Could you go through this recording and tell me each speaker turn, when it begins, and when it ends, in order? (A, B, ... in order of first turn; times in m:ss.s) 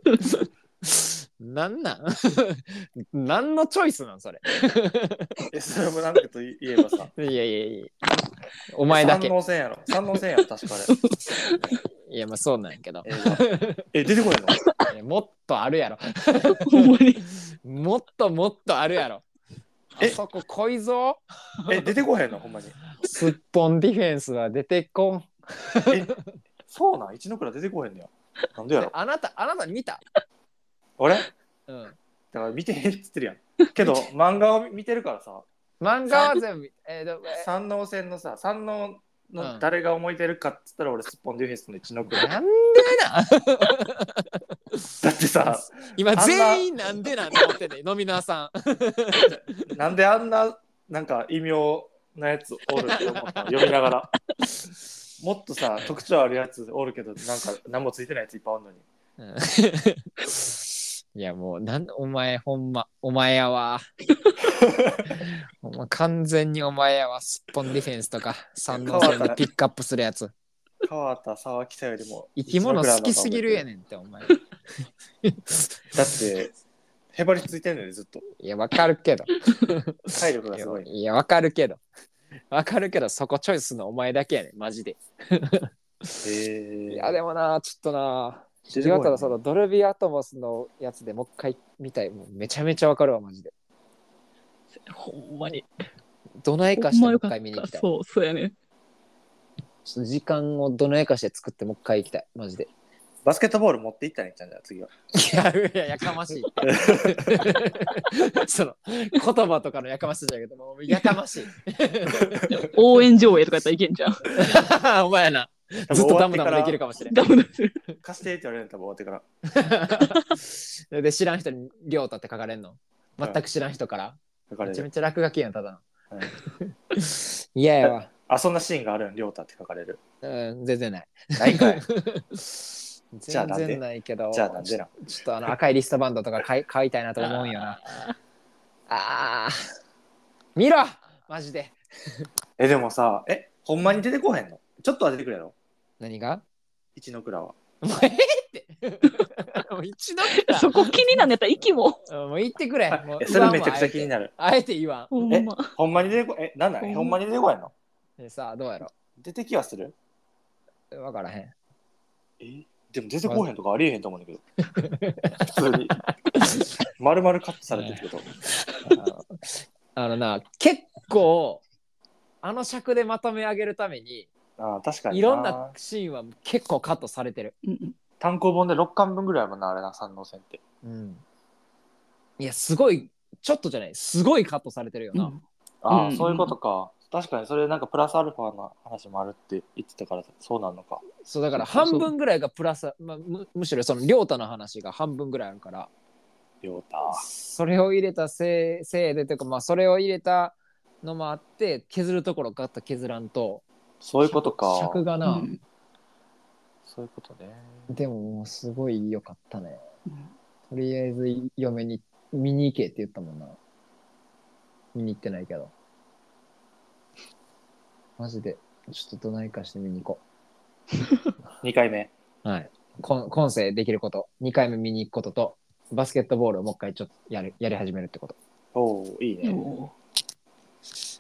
0:00.2-0:05.4 A
0:05.5-0:07.1 B
0:07.2-0:08.0 A
0:08.7-0:09.3 A
0:08.9-0:10.9 B
0:10.9-0:11.6 C
0:12.1-0:13.9 A
0:13.0-0:14.6 B
0:14.9-0:16.9 A
0:16.5-0:17.2 C
0:17.6-0:19.2 A
0:20.0-0:21.2 A
0:21.7-0:22.8 B
0:23.0-0:26.3 A
0:25.9-0:26.1 B
0:26.7-0:28.9 B
0:28.8-0:30.0 A
0:31.0-0:31.3 B
0:31.7-0:32.0 A
0:32.3-0:35.4 B
0:35.8-0:37.5 A
0:37.4-0:42.3 B
0:39.4-0:39.6 A
0:42.1-0:45.0 A
0:45.0-0:46.7 B
0:45.6-0:49.6 A
0:49.3-0:54.1 B
0:52.8-0:53.7 A
0:55.2-0:58.8 B
0:59.2-1:03.8 A
1:04.5-1:05.1 B
1:05.1-1:10.3 A
1:08.7-1:09.4 B
1:10.8-1:13.6 B
1:12.4-1:14.4 A
1:15.2-1:15.8 A
1:15.9-1:16.5 B
1:17.1-1:18.2 B
1:18.4-1:21.8 A
1:20.1-1:20.9 B
1:22.5-1:26.2 A
1:26.2-1:27.2 B
1:26.9-1:33.5 A
1:28.7-1:29.4 B
1:34.8-1:35.7 C
1:36.4-1:37.8 A
1:36.8-1:38.5 C
1:39.8-1:42.7 A
1:43.2-1:44.9 B
1:45.1-1:52.7 A
1:46.6-1:47.5 B
1:52.2-1:52.7 B
1:52.5-1:54.4 C
1:54.3-1:57.2 A
1:55.9-1:56.8 B
1:57.1-1:57.8 C
1:58.0-1:59.2 B
1:59.5-2:08.1 A
2:04.5-2:04.9 B
2:07.8-2:10.0 B
2:10.2-2:17.8 A
2:11.4-2:11.8 B
2:13.3-2:14.9 B
2:17.2-2:18.1 C
2:18.9-2:19.6 A
2:20.6-2:22.3 A
2:22.6-2:25.5 B
2:26.0-2:26.4 A
2:27.0-2:27.6 B
2:27.8-2:31.1 A
2:30.3-2:32.0 C
2:32.0-2:35.1 A
2:32.9-2:34.3 B
2:35.1-2:35.7 C
2:35.3-2:37.7 B
2:36.8-2:37.2 C
2:38.2-2:38.9 A
2:39.2-2:39.9 B
2:40.9-2:41.5 A
2:42.4-2:44.4 B
2:44.7-2:45.5 A
2:45.4-2:46.0 B
2:47.0-2:48.3 B
2:47.7-2:48.0 A
2:48.9-2:51.6 A
2:52.4-2:54.3 A
2:54.6-2:55.7 B
2:55.1-2:57.5 A
2:57.6-2:58.0 C
2:58.2-3:00.6 B
3:00.8-3:01.2 A
3:02.4-3:05.3 A
3:05.1-3:06.5 C
3:05.8-3:11.0 B
3:11.2-3:15.9 A
3:11.7-3:12.0 C
3:16.6-3:17.2 B
3:17.2-3:23.6 A
3:24.0-3:25.0 B
3:24.2-3:25.5 A
3:25.2-3:25.6 C
3:26.8-3:27.9 B
3:27.9-3:29.8 A
3:30.7-3:33.6 A
3:34.9-3:35.7 A
3:38.2-3:40.2 A
3:41.6-3:42.1 B
3:42.4-3:48.4 A
3:48.7-3:49.6 B
3:49.4-3:49.9 C